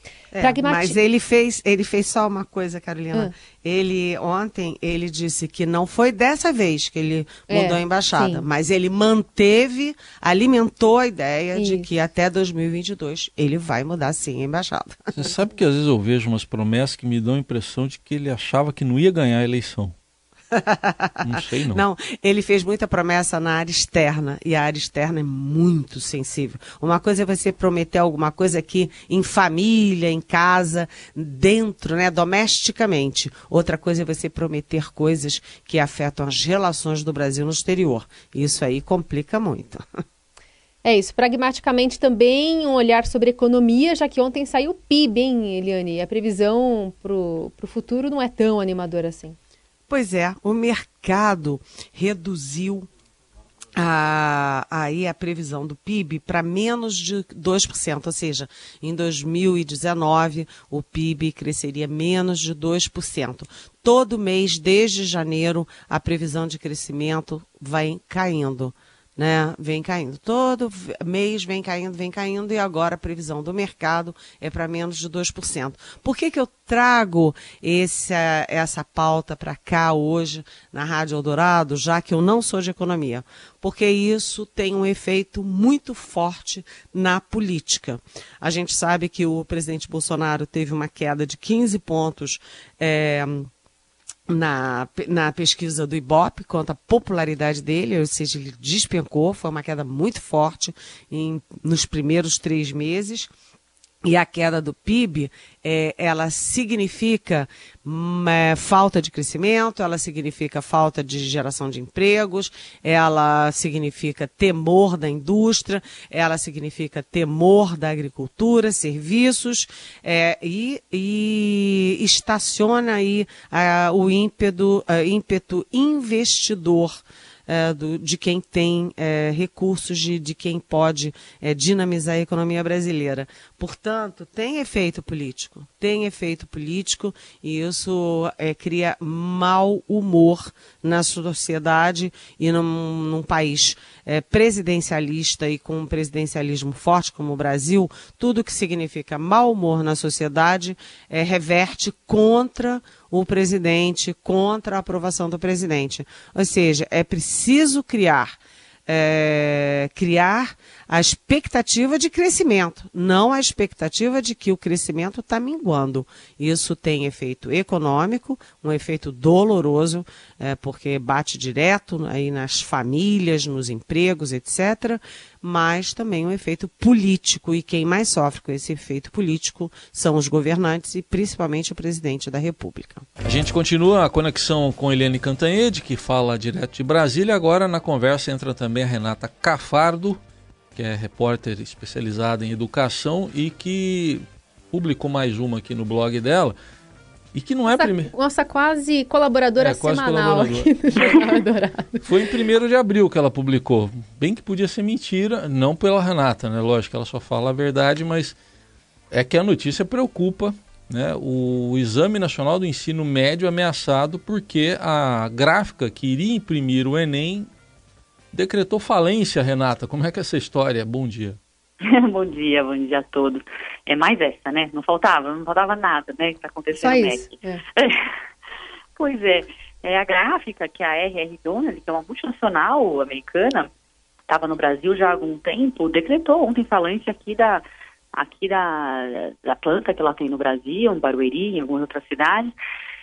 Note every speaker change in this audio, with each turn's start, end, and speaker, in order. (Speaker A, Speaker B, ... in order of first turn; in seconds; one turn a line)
Speaker A: 0.3-15.2
Speaker B: 0.4-1.0
Speaker B: 7.5-8.4
Speaker B: 11.6-11.8
Speaker C: 15.2-19.9
Speaker A: 20.5-39.8
Speaker C: 21.2-21.8
Speaker B: 40.8-49.4
Speaker A: 49.9-52.9
Speaker A: 53.8-93.5
Speaker A: 94.3-103.3
Speaker A: 104.0-158.3
Speaker A: 158.9-183.1
Speaker C: 183.2-190.2
Speaker C: 190.7-196.6
Speaker C: 197.3-198.1
Speaker B: 197.7-202.1
Speaker C: 199.6-201.4
Speaker C: 202.0-208.4
Speaker C: 209.1-217.5
Speaker C: 218.3-221.4
Speaker D: 221.8-228.0
Speaker B: 226.7-227.6
Speaker D: 229.0-233.7
Speaker D: 234.3-242.5